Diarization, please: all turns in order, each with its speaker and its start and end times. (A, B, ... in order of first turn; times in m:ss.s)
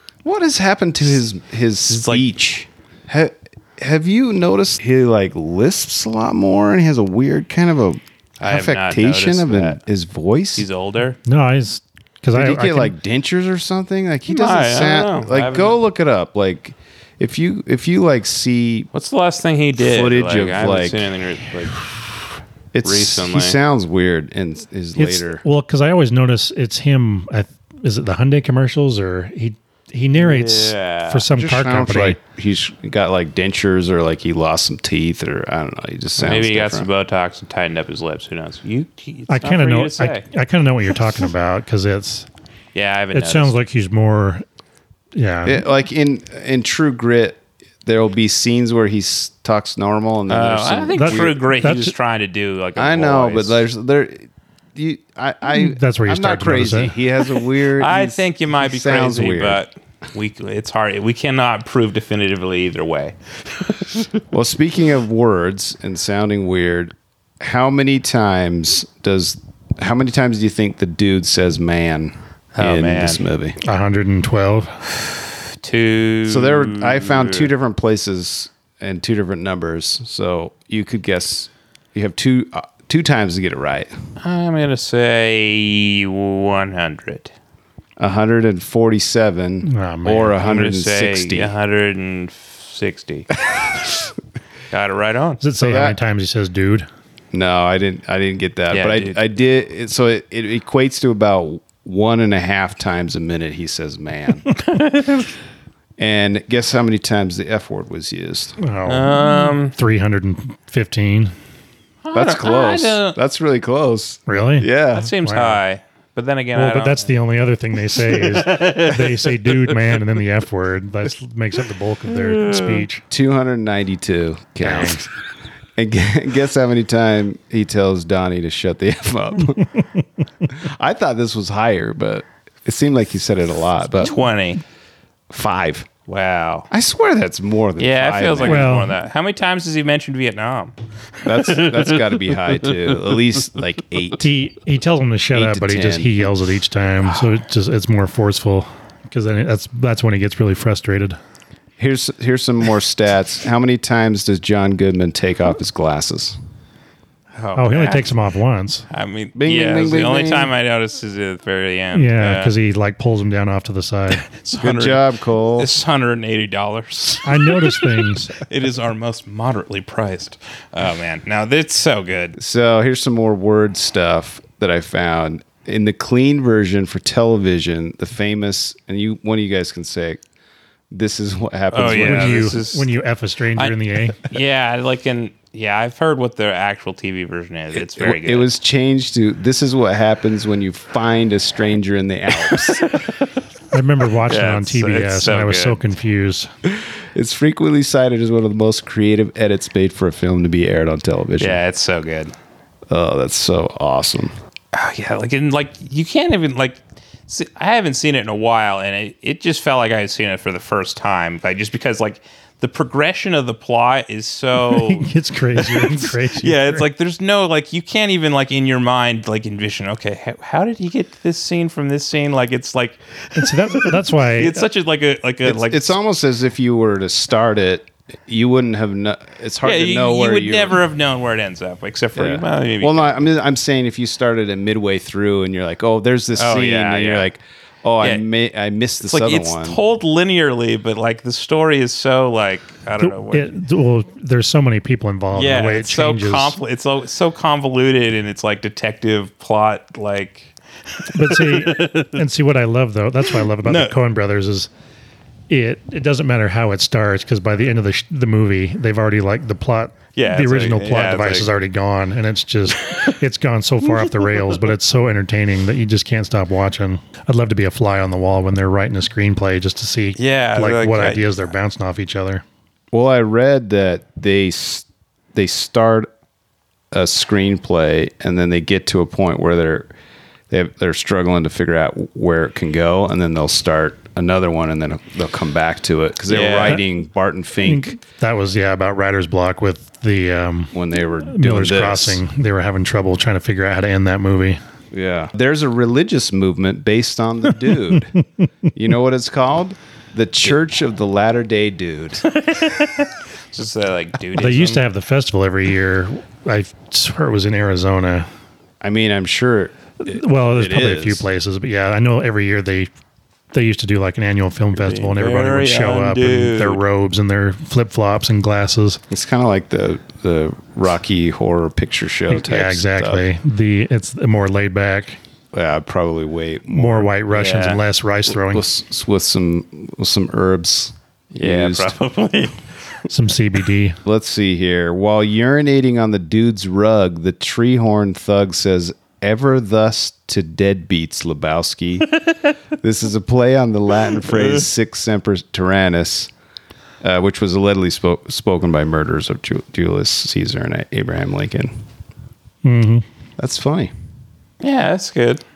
0:00.2-0:10.7 A
0:01.9-0:02.3 B
0:08.4-0:09.8 B
0:10.6-0:11.2 B
0:11.3-0:13.0 C
0:12.3-0:18.9 A
0:14.3-0:15.8 B
0:18.9-0:21.8 B
0:19.8-0:21.1 A
0:22.7-0:25.4 A
0:22.8-0:23.6 B
0:25.0-0:32.2 C
0:30.2-0:31.3 B
0:31.4-0:36.9 A
0:36.2-0:40.2 B
0:39.3-0:42.3 C
0:42.8-0:43.6 B
0:43.1-0:44.4 C
0:45.2-0:45.6 C
0:45.4-0:51.4 A
0:50.3-0:53.6 B
0:51.0-0:51.9 C
0:52.8-0:59.6 A
0:55.5-0:57.0 C
0:57.8-1:04.1 B
1:04.3-1:13.6 A
1:12.6-1:13.2 B
1:13.6-1:14.8 C
1:15.0-1:17.5 B
1:16.3-1:23.9 A
1:24.2-1:27.3 B
1:28.0-1:31.5 A
1:29.7-1:30.3 C
1:30.4-1:33.3 B
1:34.7-1:35.4 B
1:35.4-1:36.9 C
1:35.6-1:36.0 A
1:37.3-1:44.5 A
1:38.7-1:39.2 B
1:44.8-1:45.2 B
1:46.0-1:48.6 A
1:48.6-1:51.3 C
1:48.9-1:49.7 B
1:52.0-1:53.2 B
1:52.1-1:55.1 A
1:54.3-1:54.7 C
1:54.9-1:57.1 B
1:55.2-1:55.6 C
1:56.6-2:03.0 C
1:58.0-1:59.5 B
2:02.4-2:02.8 B
2:03.1-2:05.1 A
2:04.6-2:05.0 C
2:05.8-2:09.7 A
2:10.6-2:14.1 A
2:14.0-2:14.6 B
2:15.3-2:15.9 A
2:16.1-2:16.7 B
2:16.7-2:18.7 A
2:17.8-2:20.8 B
2:18.4-2:18.9 C
2:21.2-2:24.2 A
2:21.3-2:23.2 B
2:24.2-2:31.2 C
2:25.3-2:26.3 A
2:31.8-2:36.4 A
2:37.4-2:38.1 B
2:37.6-2:38.8 C
2:38.9-2:42.5 B
2:39.4-2:40.5 A
2:41.9-2:44.2 C
2:44.1-2:45.0 B
2:44.6-2:45.7 A
2:45.6-2:52.4 B
2:47.2-2:48.3 C
2:52.4-3:00.2 A
3:00.9-3:02.6 A
3:01.7-3:02.9 B
3:01.8-3:04.2 C
3:03.6-3:08.5 B
3:07.7-3:12.9 A
3:12.5-3:13.3 B
3:13.7-3:16.5 C
3:14.3-3:15.8 B
3:16.7-3:21.6 A
3:21.4-3:22.3 B
3:22.9-3:24.3 A
3:24.7-3:35.1 B
3:34.6-3:36.8 C
3:35.6-3:46.0 B
3:43.4-3:44.7 C
3:45.4-3:50.8 A
3:49.6-3:53.2 B
3:52.2-3:59.8 A
3:56.4-3:57.3 B
3:59.0-4:03.6 B
4:03.0-4:06.6 C
4:05.3-4:10.5 B
4:11.1-4:12.2 B
4:11.1-4:14.7 C
4:13.3-4:14.0 B
4:15.5-4:32.4 C
4:20.2-4:21.5 B
4:22.8-4:23.1 B
4:30.2-4:31.3 B
4:32.9-4:36.1 A
4:36.9-4:39.9 A
4:40.5-4:48.0 A
4:46.3-4:46.8 B
4:47.6-4:50.7 C
4:50.7-4:52.2 A
4:51.3-4:54.6 C
4:54.9-4:58.1 A
4:58.7-5:02.2 A
5:02.3-5:04.8 B
5:04.4-5:08.3 C
5:08.8-5:11.3 A
5:10.0-5:12.9 C
5:13.5-5:19.0 C
5:14.8-5:16.8 B
5:19.1-5:23.2 A
5:22.3-5:25.2 C
5:25.5-5:27.2 A
5:26.7-5:28.6 C
5:27.3-5:27.8 B
5:28.3-5:32.0 A
5:31.4-5:32.6 B
5:33.1-5:34.0 C
5:34.0-5:42.1 A
5:42.8-5:46.3 A
5:44.2-5:44.6 B
5:47.0-5:51.7 A
5:52.6-5:53.0 C
5:53.4-5:53.9 A
5:54.6-5:55.4 B